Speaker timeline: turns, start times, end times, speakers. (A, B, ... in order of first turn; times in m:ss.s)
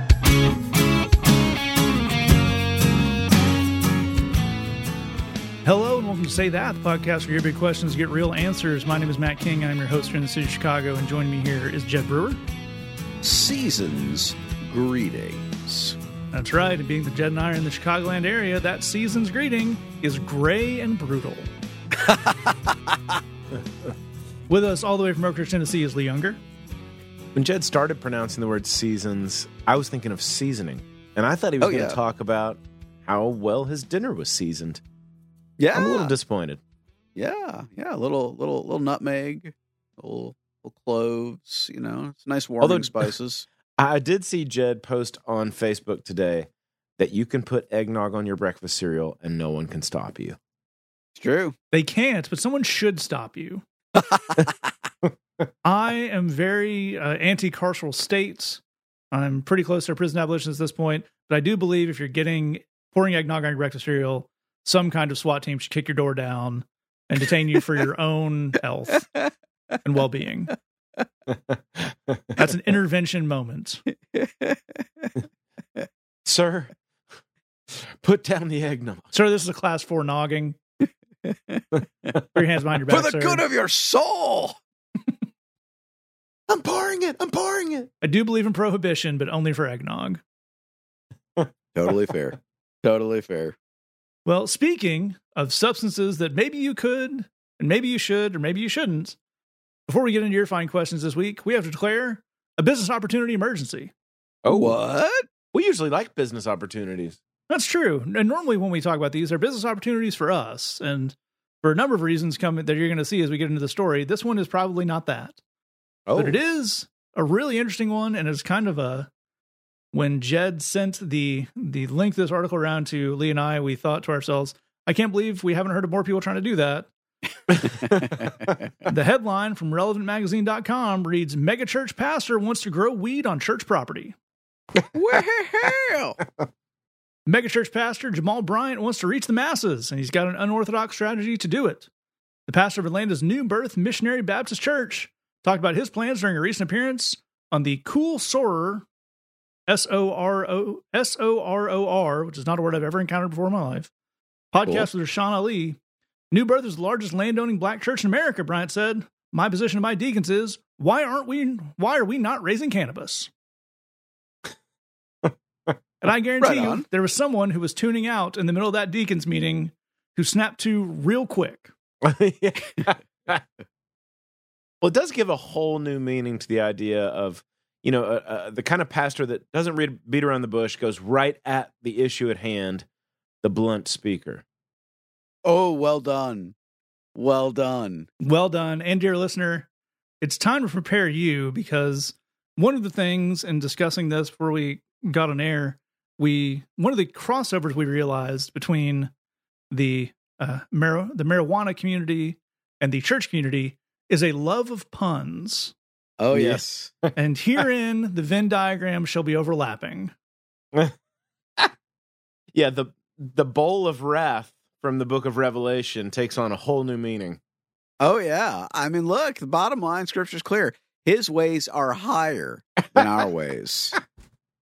0:05.6-0:12.4 A
0:13.2-0:16.0 B
0:16.3-0:21.5 A
0:21.9-0:22.8 B
0:24.5-0:26.4 A
0:27.3-0:34.8 C
0:31.6-0:32.0 B
0:35.6-0:36.1 B
0:35.7-0:36.6 C
0:37.2-0:43.5 B
0:42.6-0:43.1 C
0:43.8-0:50.4 C
0:51.2-0:51.5 B
0:51.7-0:53.6 A
0:54.0-0:54.3 B
0:55.6-1:09.1 A
1:09.8-1:10.5 A
1:11.3-1:12.5 C
1:12.4-1:13.8 A
1:14.1-1:15.1 B
1:16.2-1:16.7 C
1:17.7-1:19.1 C
1:19.1-1:20.6 A
1:21.2-1:21.7 B
1:22.3-1:23.4 A
1:22.9-1:24.6 B
1:26.5-1:27.9 C
1:28.0-1:30.2 A
1:31.7-1:33.6 B
1:34.2-1:39.2 A
1:39.9-1:43.9 A
1:44.4-1:44.8 C
1:44.5-1:45.2 B
1:45.5-1:47.2 C
1:47.5-1:55.4 A
1:56.1-1:56.4 C
1:56.1-1:59.1 A
1:59.9-2:06.9 A
2:08.9-2:14.2 A
2:14.9-2:16.2 B
2:17.3-2:21.9 A
2:22.5-2:28.8 A
2:29.7-2:33.9 A
2:34.5-2:35.8 A
2:36.3-2:43.3 A
2:45.2-2:45.8 C
2:46.0-2:51.7 A
2:46.4-2:46.8 B
2:52.0-2:53.4 C
2:54.8-3:02.8 C
3:03.4-3:04.4 C
3:05.4-3:06.5 B
3:07.1-3:08.1 B
3:08.2-3:09.7 A
3:10.2-3:19.1 A
3:19.7-3:25.7 A
3:26.2-3:26.9 B
3:26.3-3:27.1 C
3:27.2-3:30.1 A
3:32.5-3:37.4 C
3:38.0-3:44.0 B